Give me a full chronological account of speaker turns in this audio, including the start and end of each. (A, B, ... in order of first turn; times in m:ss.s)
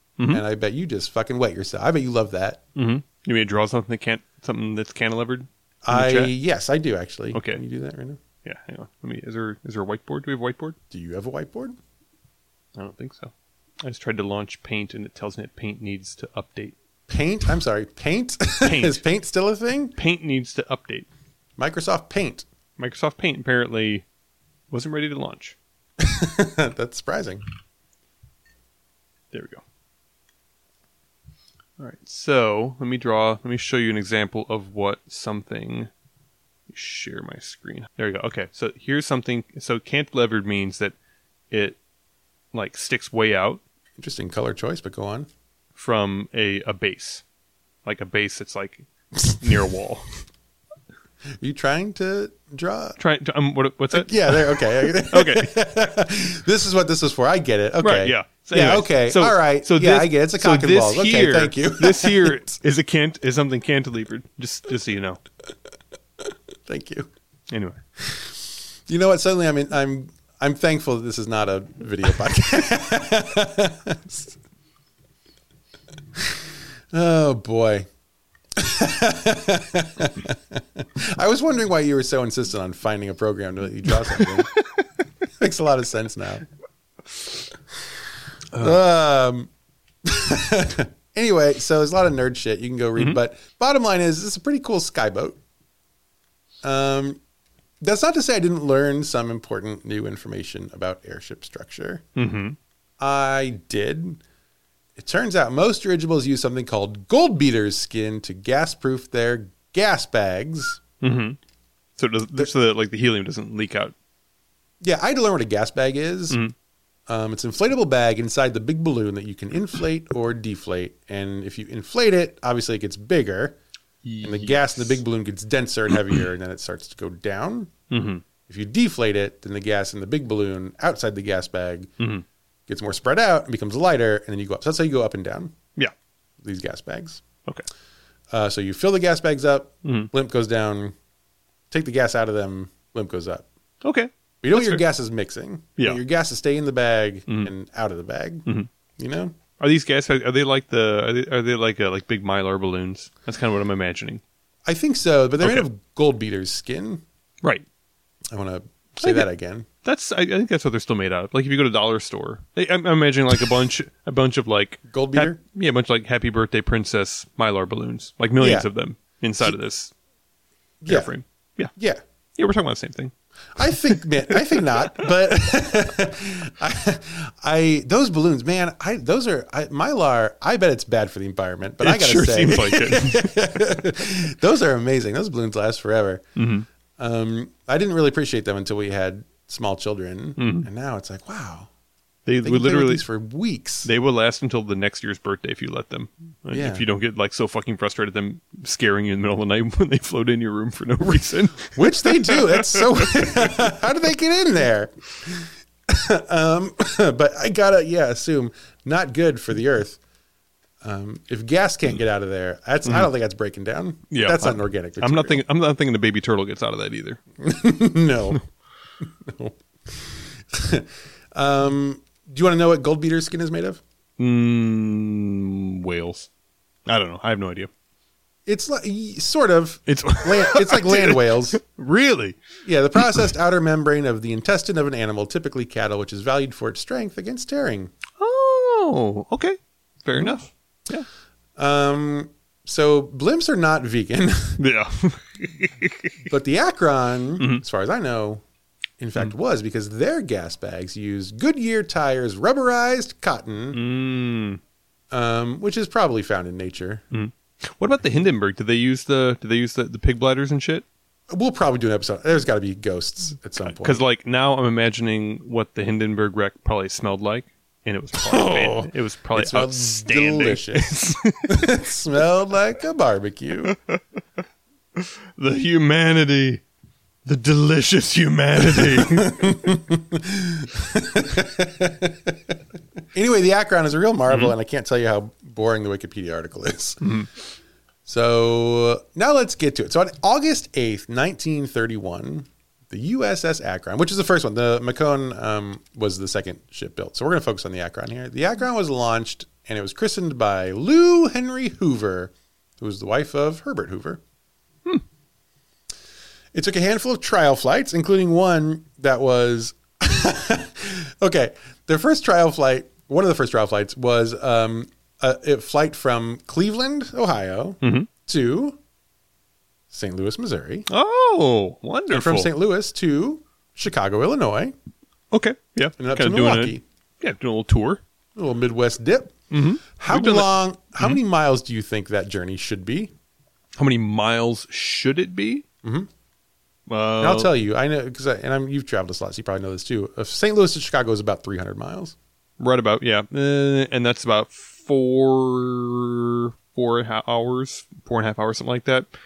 0:00.2-0:00.4 A
0:00.3-0:02.6 B
0:02.8-0:06.3 A
0:05.8-0:08.2 B
0:07.3-0:07.6 A
0:08.4-0:10.8 A
0:10.9-0:11.8 B
0:12.8-0:16.8 A
0:17.1-0:20.0 B
0:18.6-0:19.0 A
0:20.0-0:21.1 A
0:21.6-0:22.4 B
0:22.8-0:24.0 A
0:24.7-0:25.6 A
0:26.0-0:27.4 B
0:29.3-0:29.6 A
0:31.8-0:35.9 A
0:36.7-0:41.0 A
0:41.5-0:41.8 A
0:42.5-0:43.6 A
0:44.0-0:45.3 B
0:45.8-0:47.2 A
0:47.8-0:48.9 A
0:49.2-0:49.5 B
0:49.4-0:50.2 A
0:51.4-0:53.0 B
0:53.0-0:55.5 A
0:53.9-1:02.6 B
0:57.8-1:05.2 A
1:06.7-1:07.1 B
1:07.5-1:07.8 A
1:08.0-1:14.4 B
1:16.2-1:17.9 B
1:18.6-1:24.5 B
1:23.9-1:24.8 A
1:25.4-1:26.4 B
1:28.6-1:29.5 B
1:30.0-1:35.4 B
1:36.6-1:37.2 B
1:37.8-1:42.0 B
1:42.2-1:42.6 A
1:43.0-1:44.2 B
1:45.0-1:50.8 B
1:51.0-1:51.4 A
1:52.0-1:53.9 A
1:54.8-1:56.4 B
1:57.1-2:03.6 B
2:04.0-2:05.0 A
2:04.2-2:07.7 B
2:07.9-2:08.2 A
2:08.5-2:11.9 B
2:12.0-2:12.2 A
2:12.7-2:15.6 B
2:16.4-2:17.2 B
2:18.3-2:20.9 B
2:19.8-2:20.1 A
2:21.7-2:23.5 B
2:23.8-2:24.8 A
2:24.4-2:29.3 B
2:29.6-2:34.2 A
2:34.7-2:37.0 B
2:35.4-2:35.7 A
2:38.3-2:39.7 B
2:39.0-2:39.3 A
2:39.8-2:49.9 A
2:44.9-2:45.4 B
2:48.4-2:48.7 B
2:50.8-2:51.1 B
2:50.9-2:51.7 A
2:51.8-2:52.0 B
2:52.4-2:55.0 A
2:53.6-3:06.2 B
3:01.8-3:03.3 A
3:06.4-3:06.7 A
3:07.0-3:11.7 B
3:10.4-3:10.7 A
3:12.3-3:13.0 A
3:12.4-3:13.9 B
3:13.8-3:23.5 A
3:16.5-3:16.8 B
3:21.8-3:30.0 B
3:30.8-3:35.4 B
3:32.8-3:33.1 A
3:34.1-3:37.2 A
3:37.4-3:38.4 B
3:39.2-3:43.8 B
3:44.2-3:46.3 A
3:46.9-3:47.7 A
3:48.5-3:51.6 B
3:49.9-3:52.4 A
3:52.6-3:57.9 B
3:53.0-3:53.3 A
3:58.2-4:01.1 A
4:01.6-4:04.6 B
4:04.6-4:06.1 A
4:06.3-4:08.4 B
4:09.0-4:13.8 B
4:13.7-4:14.6 A
4:15.1-4:17.0 B
4:17.1-4:20.8 A
4:21.3-4:24.0 B
4:23.6-4:31.8 A
4:28.2-4:33.8 B
4:35.0-4:36.6 A
4:37.2-4:39.6 A
4:38.7-4:42.5 B
4:43.1-4:47.1 B
4:44.3-4:44.5 A
4:47.0-4:47.3 A
4:48.1-5:04.2 B
5:06.5-5:18.8 B
5:17.8-5:18.1 A
5:19.9-5:20.9 B
5:20.9-5:22.5 A
5:22.1-5:24.7 B
5:25.3-5:28.0 A
5:26.0-5:26.8 B
5:28.4-5:29.4 B
5:29.5-5:31.2 A
5:30.0-5:33.1 B
5:33.8-5:35.6 A
5:35.8-5:36.1 B
5:36.9-5:37.5 A
5:37.2-5:42.2 B
5:42.6-5:49.1 A